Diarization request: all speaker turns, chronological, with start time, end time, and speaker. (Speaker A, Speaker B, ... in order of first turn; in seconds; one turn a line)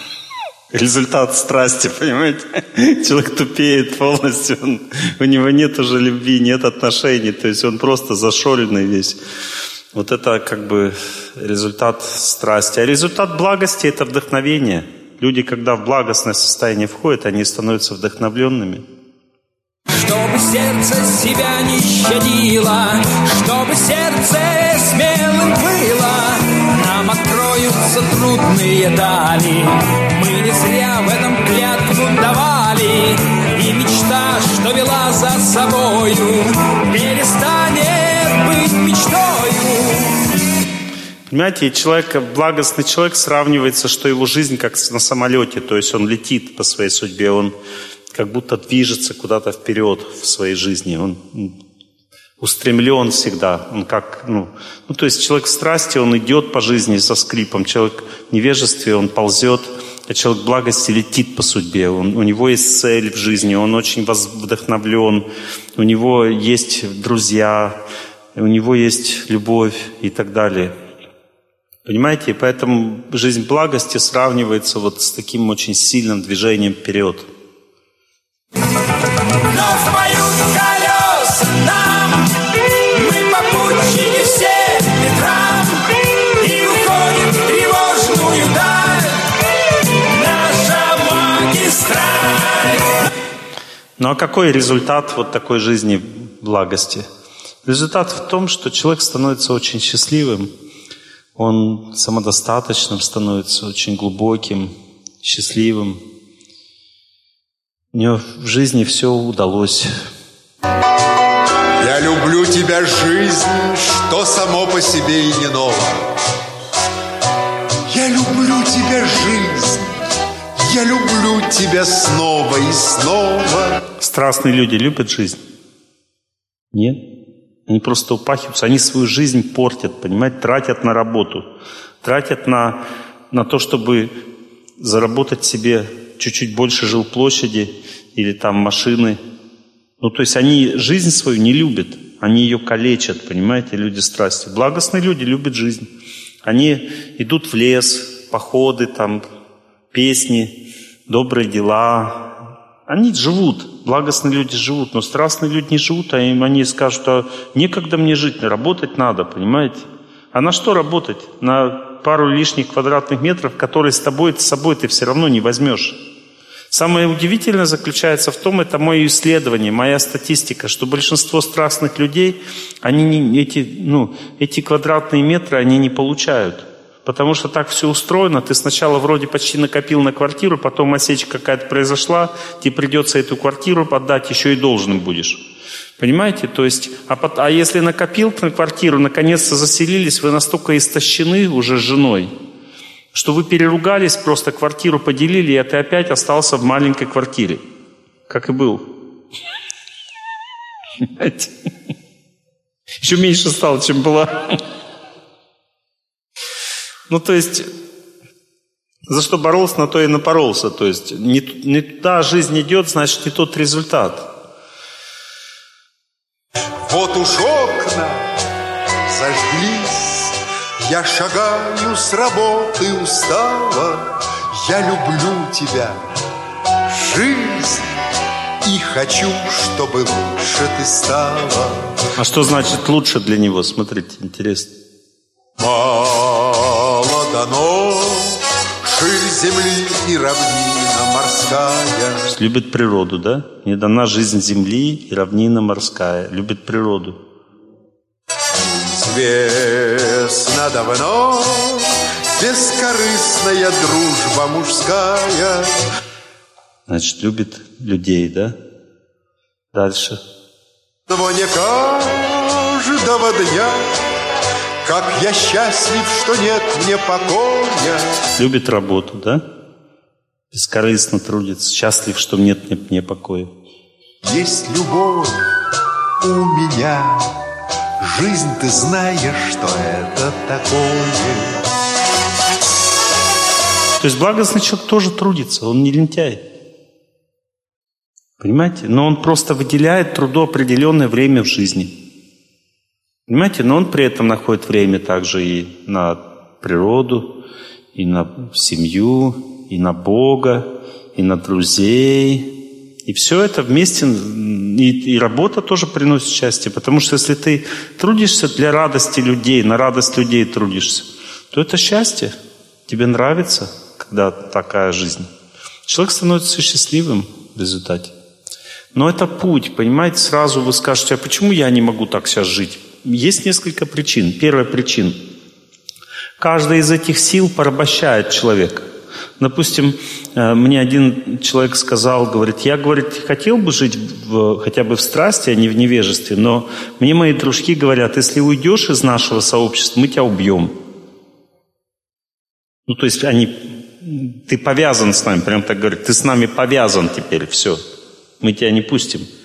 Speaker A: 0.7-9.2
Speaker A: 9.9-18.9
Speaker B: 19.9-40.3
Speaker A: 41.3-47.5
Speaker A: 48.1-51.5
Speaker A: 52.4-67.8
Speaker A: 68.4-70.8
Speaker A: 71.8-77.3
Speaker B: 79.3-89.3
Speaker B: 90.0-93.0
Speaker A: 94.0-97.1
Speaker A: 97.7-100.5
Speaker A: 101.4-106.0
Speaker A: 107.9-109.9
Speaker C: 111.8-116.1
Speaker C: 117.9-119.9
Speaker C: 120.6-123.8
Speaker A: 124.0-125.4
Speaker A: 126.7-127.0
Speaker A: 127.7-131.5
Speaker A: 132.0-134.2
Speaker A: 134.8-139.2
Speaker A: 140.0-145.9
Speaker A: 146.4-149.2
Speaker A: 149.9-150.6
Speaker A: 151.1-166.0
Speaker A: 166.7-185.4
Speaker A: 186.0-192.3
Speaker A: 193.1-197.6
Speaker A: 198.3-199.0
Speaker A: 201.0-201.5
Speaker A: 203.0-204.6
Speaker A: 207.1-207.7
Speaker A: 209.1-214.3
Speaker C: 216.9-218.2
Speaker C: 219.1-226.0
Speaker C: 226.9-227.8
Speaker C: 228.6-231.8
Speaker A: 232.2-234.7
Speaker C: 235.6-242.2
Speaker A: 242.3-247.2
Speaker C: 248.6-255.7
Speaker A: 256.9-258.6
Speaker A: 259.7-260.2
Speaker C: 261.1-263.8
Speaker C: 264.8-268.1
Speaker A: 268.4-269.4
Speaker A: 270.5-273.5
Speaker C: 274.2-275.4
Speaker C: 276.2-277.3
Speaker C: 278.0-281.6
Speaker A: 284.0-286.4
Speaker A: 288.4-291.9
Speaker A: 293.3-297.4
Speaker A: 297.9-312.4
Speaker A: 312.9-315.3
Speaker A: 315.9-318.1
Speaker A: 318.9-325.3
Speaker A: 326.4-328.9
Speaker A: 329.4-340.8
Speaker A: 342.9-347.8
Speaker A: 348.4-349.3